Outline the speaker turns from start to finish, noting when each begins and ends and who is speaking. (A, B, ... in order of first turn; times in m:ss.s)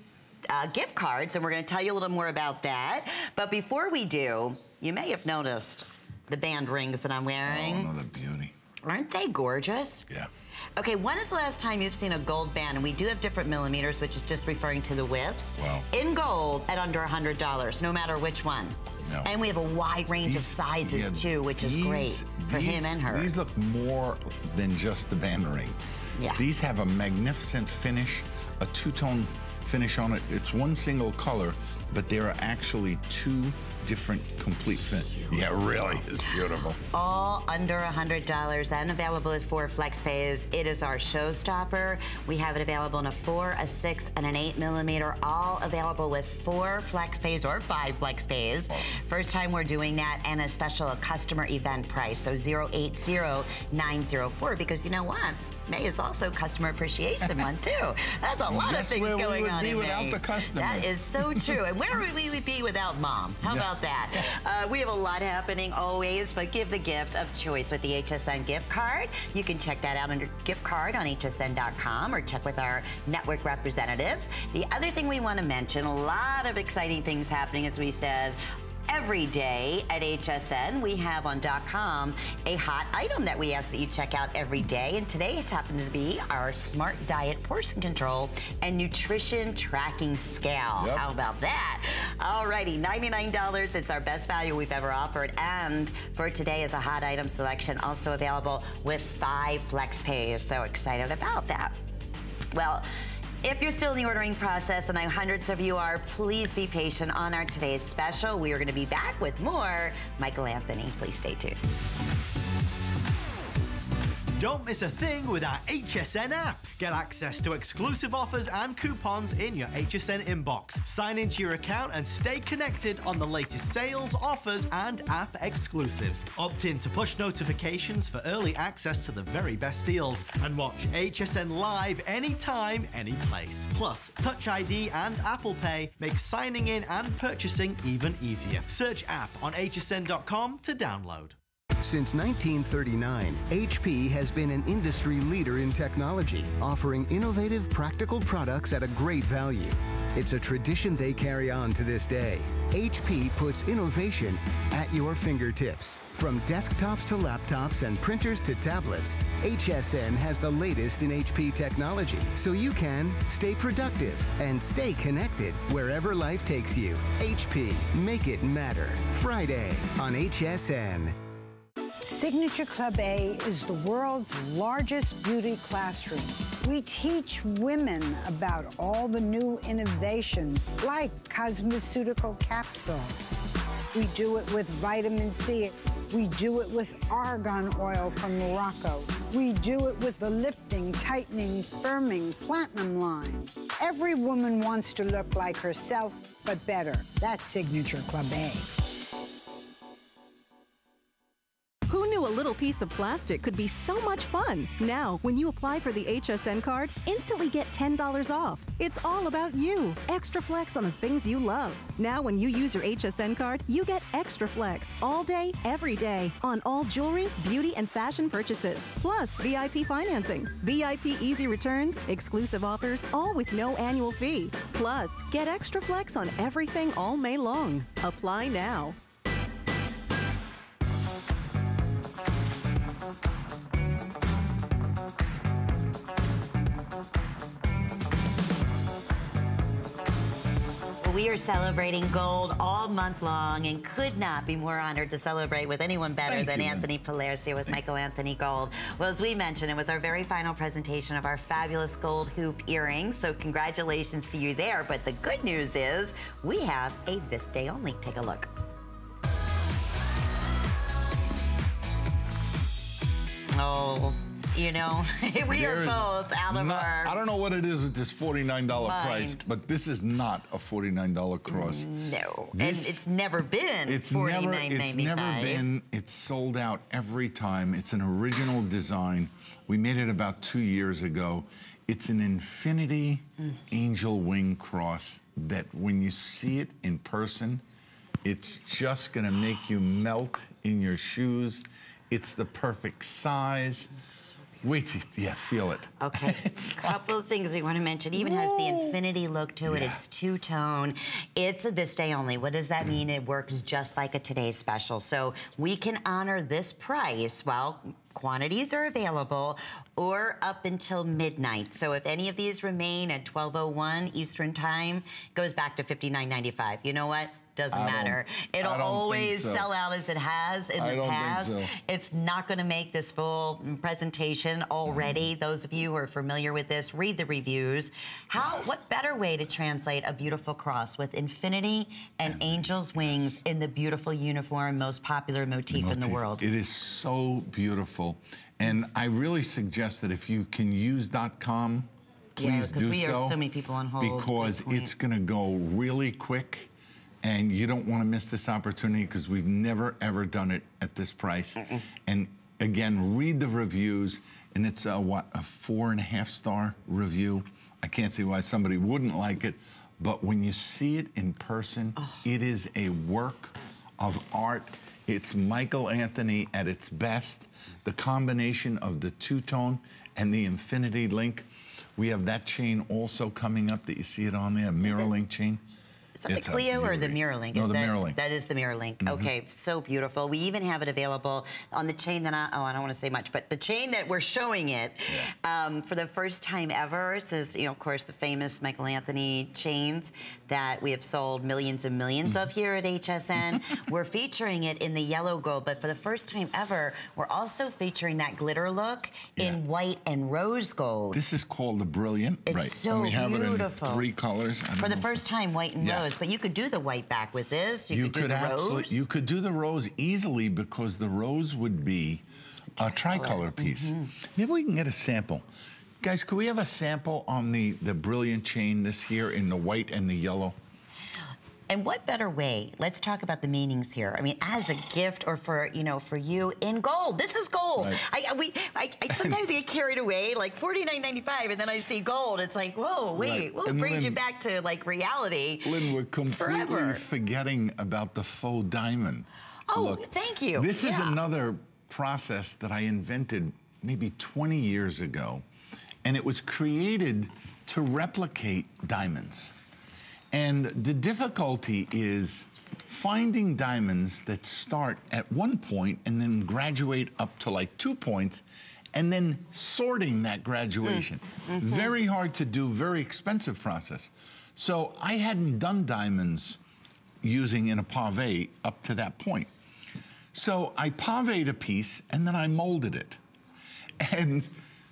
0:00.5-0:07.9 A
0:07.4-0:08.5 B
0:08.8-0:10.1 A
0:10.8-0:23.3 A
0:15.6-0:15.9 B
0:19.0-0:19.3 B
0:20.2-0:25.8 B
0:26.2-0:26.4 A
0:26.3-0:36.8 B
0:36.9-1:41.8 A
0:58.5-1:01.6 B
1:03.4-1:03.7 B
1:30.8-1:31.0 B
1:42.5-1:42.9 A
1:43.4-1:51.6 A
1:54.4-2:21.4 C
2:21.8-2:51.2 D
2:52.1-3:03.1 E
3:03.9-3:18.8 E
3:21.9-3:49.0 F
4:01.0-4:18.5 A
4:06.3-4:06.9 B
4:23.5-4:27.2 A
4:25.5-4:31.9 B
4:28.8-4:29.4 A
4:31.5-4:35.7 A
4:32.6-4:33.0 B
4:33.9-4:47.6 B
4:48.2-4:53.9 B
4:54.6-4:57.1 B
4:56.0-5:36.4 A
4:58.2-4:59.0 B
4:59.7-5:00.0 B
5:17.7-5:19.7 B
5:20.8-5:21.7 B
5:24.9-5:25.3 B
5:28.4-5:28.6 B
5:32.2-5:33.4 B
5:35.7-5:43.4 B
5:42.4-5:44.9 A
5:44.0-5:46.7 B
5:47.2-6:15.6 B
6:16.2-6:41.2 A
6:16.3-6:18.2 B
6:19.0-6:19.3 B
6:41.1-6:45.2 B
6:42.5-6:44.1 A
6:44.8-6:49.0 A
6:45.8-6:46.1 B
6:47.9-6:52.2 B
6:52.8-6:55.4 B
6:52.8-6:54.1 A
6:56.0-7:00.6 B
7:01.7-7:17.0 A
7:07.8-7:08.0 B
7:09.1-7:09.4 B
7:13.2-7:14.2 B
7:15.6-7:25.4 B
7:19.7-7:21.2 A
7:26.0-7:29.5 B
7:30.3-7:46.6 B
7:40.8-7:41.9 A
7:47.2-7:49.5 B
7:50.3-7:53.2 B
7:54.0-7:54.5 B